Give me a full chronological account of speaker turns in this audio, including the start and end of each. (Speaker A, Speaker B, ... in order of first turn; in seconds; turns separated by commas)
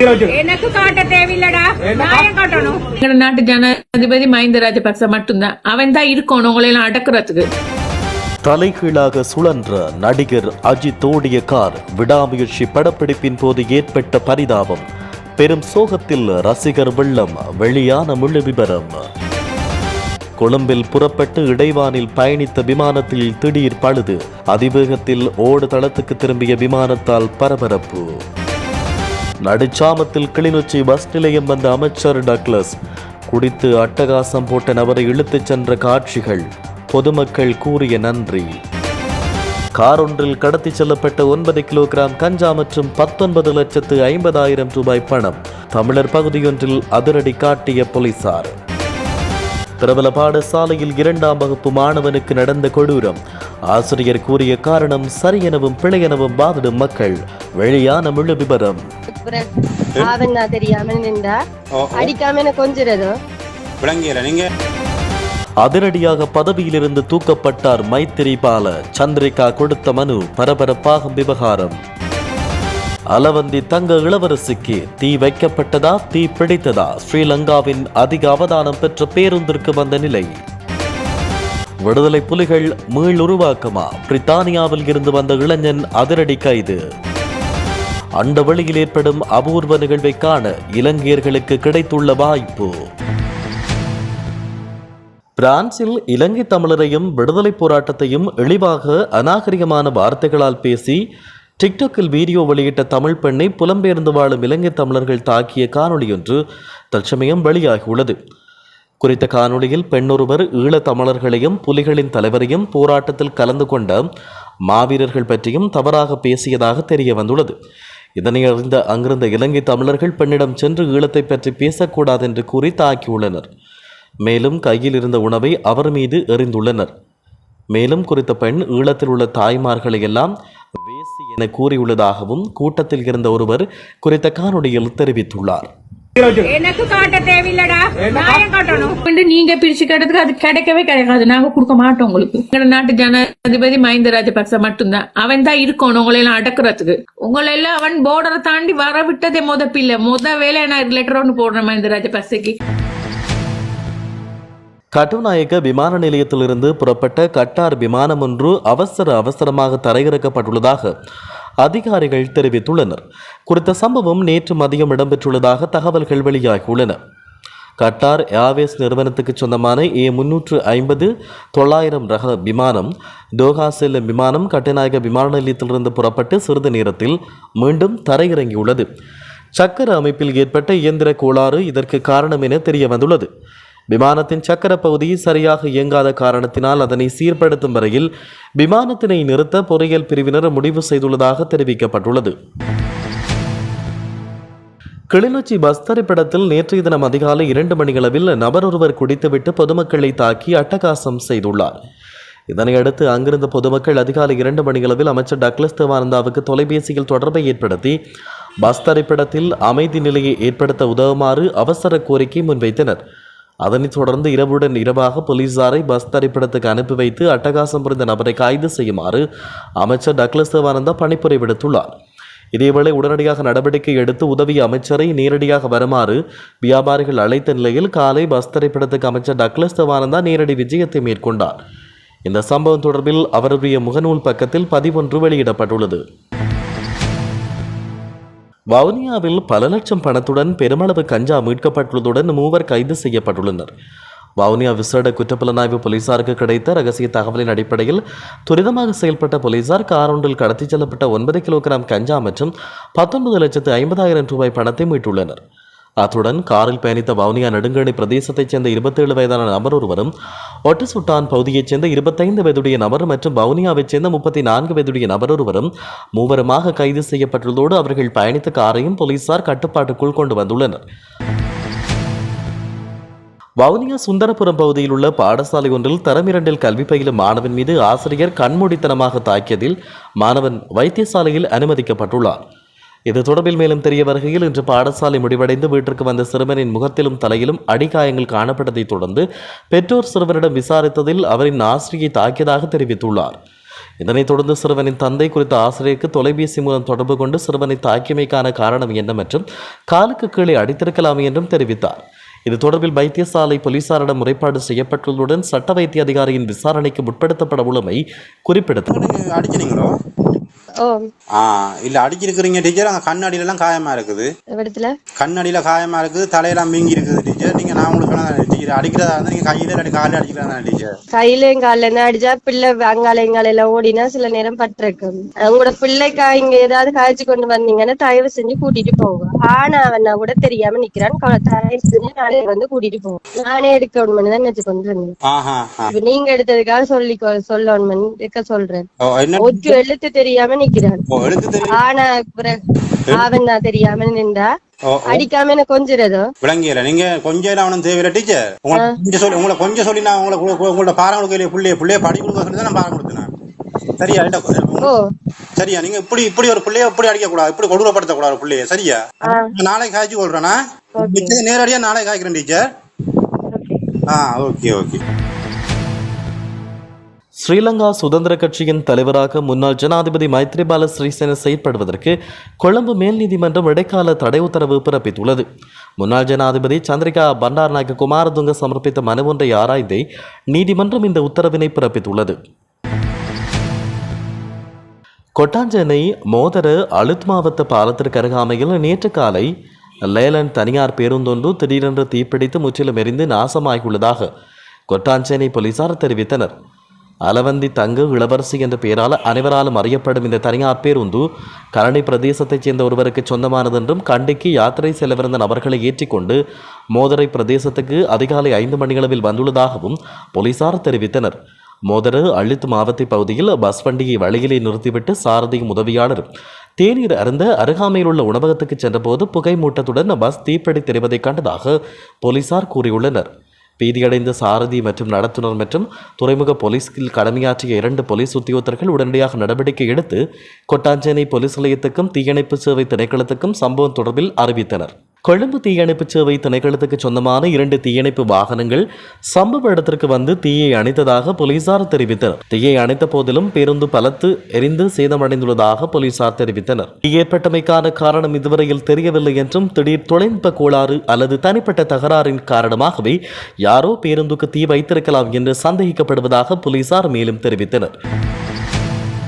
Speaker A: 0.3-2.8, Speaker B: 2.9-7.5, Speaker C: 8.4-14.9, Speaker C: 15.4-19.0, Speaker C: 20.4-28.1, Speaker C: 29.4-32.8, Speaker C: 33.3-38.6, Speaker C: 39.8-48.5, Speaker C: 49.8-58.8, Speaker D: 59.1-59.5, Speaker D: 60.0-61.4, Speaker E: 61.8-62.1, Speaker D: 62.0-63.1, Speaker E: 63.8-64.5, Speaker C: 65.6-71.8, Speaker C: 73.1-80.4, Speaker C: 81.8-86.8, Speaker C: 88.2-92.8, Speaker C: 95.4-101.0, Speaker C: 101.6-106.4, Speaker C: 106.9-108.2, Speaker C: 109.0-114.0, Speaker C: 114.7-117.5, Speaker C: 118.2-123.5, Speaker C: 124.2-126.9, Speaker C: 127.7-135.7, Speaker A: 136.4-139.0, Speaker B: 139.0-152.6, Speaker C: 154.9-160.9, Speaker C: 161.6-167.0, Speaker C: 167.8-178.9, Speaker C: 179.6-183.3, Speaker C: 183.9-192.3, Speaker C: 195.1-201.8, Speaker C: 202.5-208.0, Speaker C: 208.6-213.0, Speaker C: 213.6-219.2, Speaker C: 219.8-221.9, Speaker C: 222.5-231.6, Speaker C: 232.2-236.0, Speaker C: 238.7-243.7, Speaker C: 244.4-255.4, Speaker C: 256.0-260.1, Speaker C: 260.6-270.8, Speaker C: 273.6-282.4, Speaker C: 283.1-293.4, Speaker C: 294.0-308.9, Speaker E: 308.9-309.9, Speaker E: 311.4-314.3, Speaker D: 314.5-314.9, Speaker E: 315.2-320.9, Speaker D: 321.1-335.1, Speaker E: 335.3-335.9, Speaker D: 335.9-338.9, Speaker E: 339.0-339.8, Speaker D: 339.4-341.0, Speaker E: 341.1-341.8, Speaker D: 341.7-342.6, Speaker D: 343.1-344.5, Speaker E: 344.9-345.3, Speaker D: 345.1-346.2, Speaker E: 346.4-353.3, Speaker E: 354.0-354.9, Speaker E: 355.6-362.6, Speaker D: 361.0-361.4, Speaker D: 363.5-363.8, Speaker E: 364.1-365.0, Speaker C: 367.4-375.5, Speaker C: 376.0-382.4, Speaker C: 385.4-389.5, Speaker C: 390.0-394.3, Speaker C: 394.9-396.5, Speaker C: 397.2-406.4, Speaker C: 406.9-457.9